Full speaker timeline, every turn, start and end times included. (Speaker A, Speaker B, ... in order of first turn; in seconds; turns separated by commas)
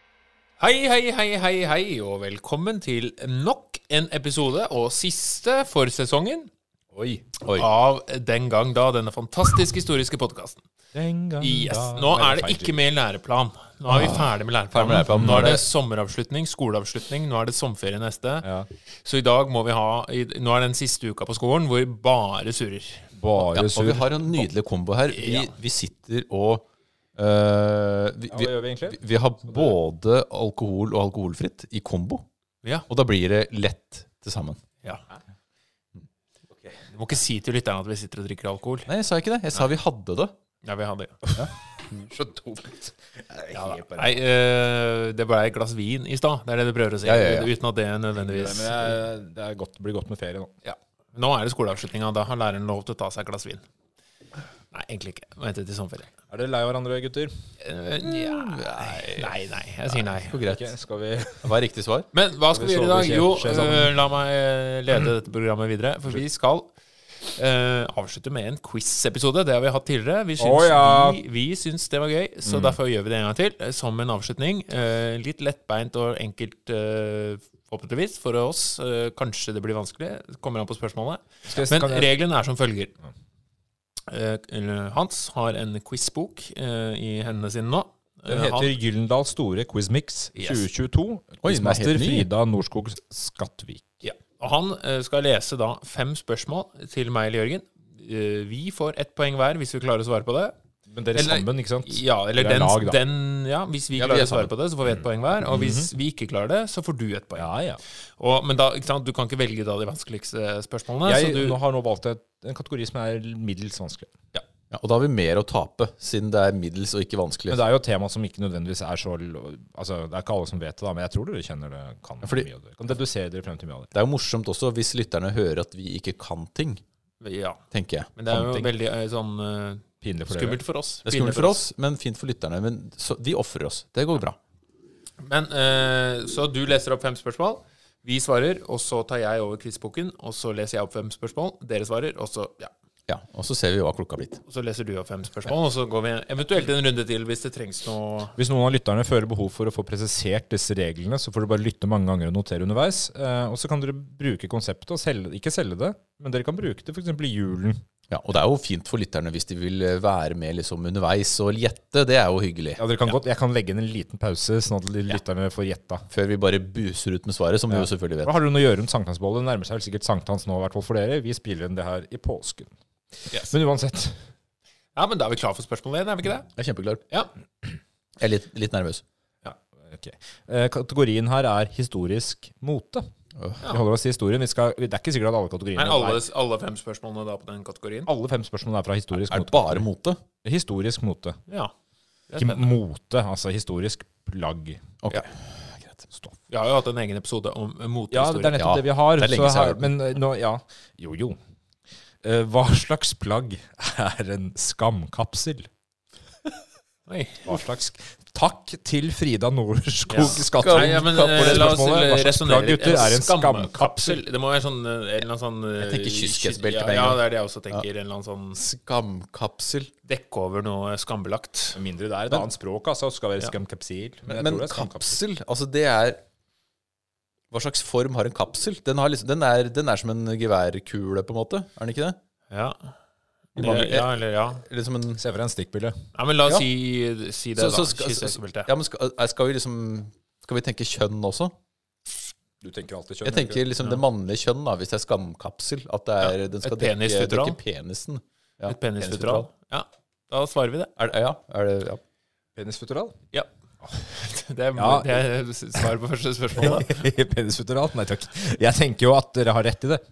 Speaker A: 0.6-6.5, Speaker B: 6.9-7.2, Speaker C: 7.4-7.7, Speaker A: 7.5-10.7, Speaker B: 10.9-12.8, Speaker A: 11.4-18.5, Speaker C: 13.9-15.6, Speaker B: 15.2-15.6, Speaker B: 18.4-18.7, Speaker A: 19.0-23.1, Speaker B: 23.1-24.4, Speaker C: 23.5-32.2, Speaker A: 25.1-25.5, Speaker B: 28.3-29.0, Speaker C: 32.9-34.6, Speaker B: 36.5-36.8, Speaker A: 36.9-38.9, Speaker C: 38.9-40.3, Speaker A: 40.6-41.2, Speaker B: 41.9-44.2, Speaker A: 43.5-48.9, Speaker C: 47.0-47.5, Speaker B: 48.2-50.5, Speaker A: 50.6-53.6, Speaker A: 54.7-56.1, Speaker B: 56.3-57.3, Speaker A: 57.6-60.4, Speaker C: 58.0-59.3, Speaker C: 60.1-60.7, Speaker B: 60.4-61.5, Speaker C: 61.4-62.1, Speaker A: 62.1-82.9, Speaker B: 62.5-63.9, Speaker B: 70.4-71.2, Speaker B: 72.4-72.8, Speaker B: 81.5-82.1, Speaker A: 84.1-88.8, Speaker B: 88.3-93.8, Speaker A: 90.3-90.7, Speaker C: 91.4-92.3, Speaker A: 94.0-100.5, Speaker B: 100.9-103.0, Speaker A: 101.1-107.5, Speaker C: 104.0-104.5, Speaker B: 105.5-105.9, Speaker B: 107.3-107.8, Speaker A: 108.2-111.6, Speaker B: 111.0-114.1, Speaker C: 114.3-117.6, Speaker B: 117.5-123.9, Speaker C: 123.9-126.8, Speaker A: 127.2-127.6, Speaker C: 127.7-128.1, Speaker A: 128.2-131.6, Speaker B: 128.3-128.7, Speaker B: 130.0-130.6, Speaker C: 131.0-134.4, Speaker A: 135.2-142.7, Speaker C: 143.1-144.4, Speaker A: 144.5-148.3, Speaker B: 148.3-157.8, Speaker C: 158.1-162.8, Speaker B: 162.8-166.1, Speaker C: 166.1-168.3, Speaker B: 167.7-172.7, Speaker B: 173.2-174.2, Speaker A: 174.9-176.5, Speaker C: 176.6-177.0, Speaker C: 178.2-179.0, Speaker B: 179.9-183.1, Speaker C: 183.4-183.6, Speaker B: 183.6-186.2, Speaker A: 185.8-188.1, Speaker B: 188.1-189.8, Speaker C: 189.2-190.2, Speaker B: 190.4-191.4, Speaker A: 191.5-191.7, Speaker A: 192.3-192.7, Speaker B: 192.4-195.0, Speaker C: 195.0-196.0, Speaker A: 196.5-198.6, Speaker B: 198.1-201.4, Speaker C: 198.6-199.9, Speaker B: 202.2-205.7, Speaker A: 207.1-207.5, Speaker B: 207.4-214.2, Speaker A: 210.1-218.6, Speaker C: 210.2-211.8, Speaker C: 215.8-217.8, Speaker C: 218.6-219.9, Speaker A: 220.1-221.8, Speaker B: 221.7-225.2, Speaker C: 224.2-226.2, Speaker C: 227.5-232.2, Speaker A: 232.5-232.9, Speaker A: 233.6-234.6, Speaker C: 233.6-235.2, Speaker B: 235.2-236.0, Speaker A: 236.1-238.7, Speaker C: 237.6-241.5, Speaker B: 242.6-243.7, Speaker C: 243.2-249.5, Speaker A: 246.2-247.6, Speaker A: 248.7-250.9, Speaker C: 251.0-252.0, Speaker B: 252.6-253.2, Speaker A: 253.3-257.0, Speaker B: 254.8-255.2, Speaker B: 256.6-260.0